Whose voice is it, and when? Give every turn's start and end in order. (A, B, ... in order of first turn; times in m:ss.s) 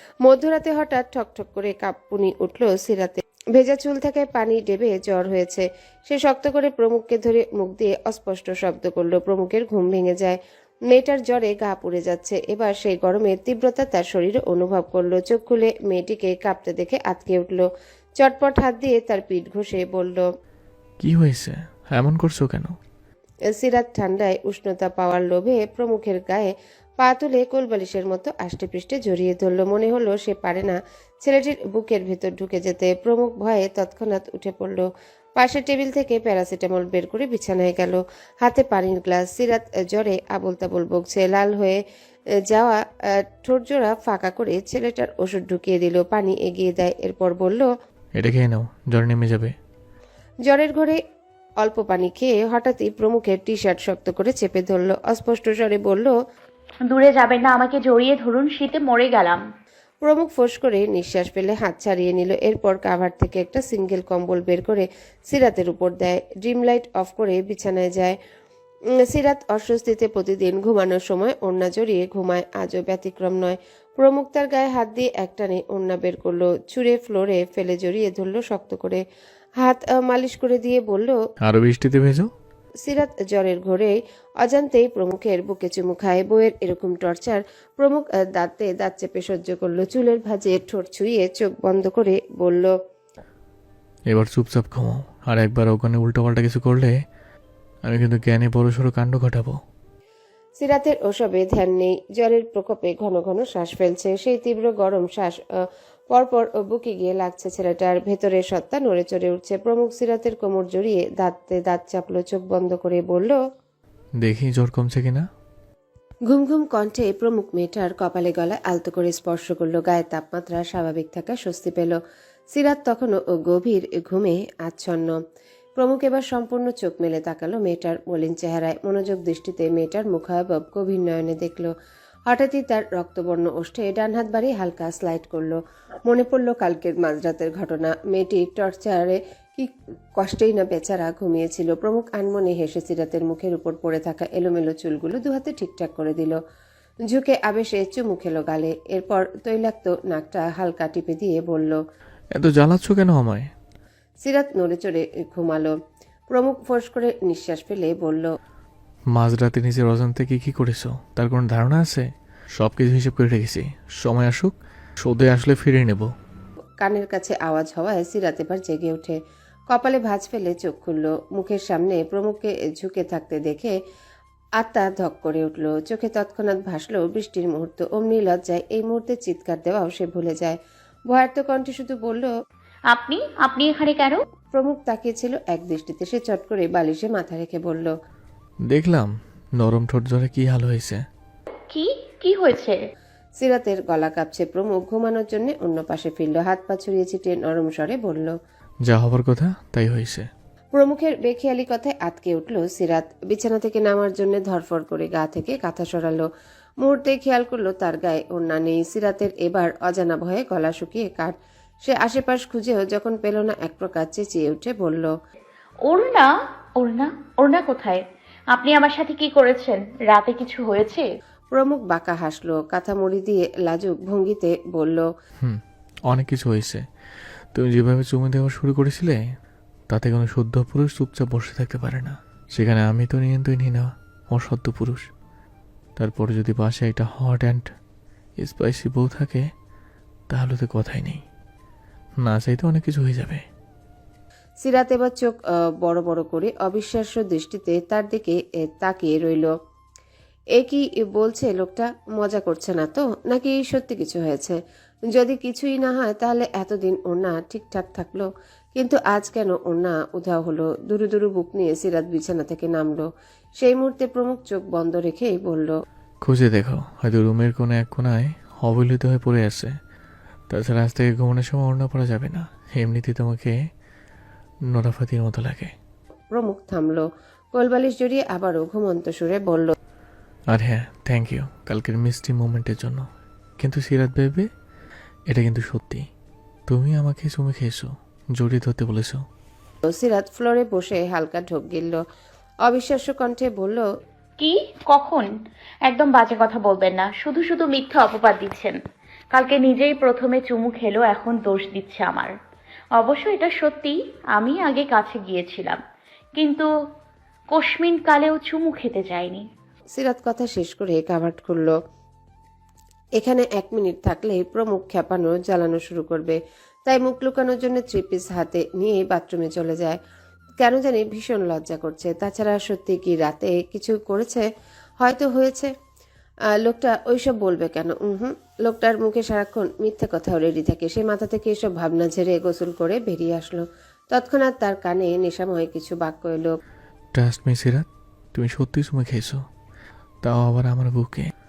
0:00.2-0:17.7 A
0:18.2-0:20.3 A
0:21.0-0:22.8 B
0:23.5-0:34.8 A
0:35.4-0:41.8 A
0:42.5-0:42.8 A
0:43.4-0:47.7 A
0:48.2-0:49.5 B
0:50.5-0:51.0 A
0:51.6-0:56.1 A
0:56.9-0:59.4 C
1:00.0-1:08.2 A
1:09.0-1:19.0 A
1:19.6-1:21.2 A
1:21.4-1:22.3 B
1:22.8-1:32.7 A
1:34.1-1:36.9 B
1:37.9-1:39.6 B
1:40.6-1:45.6 A
1:46.1-1:53.4 A
1:54.2-1:55.2 B
1:56.3-2:02.0 A
2:02.5-2:05.2 A
2:05.8-2:11.7 A
2:12.3-2:26.4 A
2:27.0-2:31.8 A
2:32.4-2:33.5 B
2:34.2-2:35.8 A
2:36.3-2:38.3 A
2:39.1-2:46.1 B
2:46.8-2:49.2 A
2:49.7-2:53.8 A
2:54.6-3:00.6 A
3:01.1-3:02.3 A
3:02.9-3:04.2 C
3:04.5-3:07.9 A
3:08.7-3:11.0 B
3:11.7-3:12.8 C
3:13.4-3:18.3 A
3:18.9-3:20.3 B
3:20.7-3:26.3 A
3:26.8-3:35.1 A
3:35.9-3:38.0 C
3:38.5-3:41.1 C
3:41.5-3:45.1 A
3:45.4-3:46.8 B
3:47.5-3:49.2 B
3:49.9-3:55.0 B
3:56.0-3:57.7 B
3:58.4-3:59.5 B
4:00.3-4:01.2 B
4:02.2-4:03.4 B
4:04.6-4:09.5 A
4:10.6-4:14.6 A
4:15.1-4:23.1 A
4:23.6-4:25.7 A
4:26.2-4:29.7 B
4:30.5-4:33.6 B
4:34.7-4:35.7 B
4:36.3-4:39.7 A
4:40.5-4:43.0 B
4:43.6-4:44.5 B
4:45.3-4:46.0 B
4:46.7-4:49.2 B
4:49.8-4:52.0 A
4:52.6-4:53.9 A
4:54.4-4:55.3 C
4:55.9-4:58.8 C
4:59.3-5:02.3 C
5:03.0-5:05.8 C
5:06.4-5:06.7 C
5:07.5-5:09.4 C
5:10.0-5:11.8 A
5:13.2-5:20.0 A
5:20.6-5:24.5 A
5:25.0-5:25.7 A
5:26.6-5:36.6 A
5:37.1-5:39.4 B
5:40.2-5:41.3 B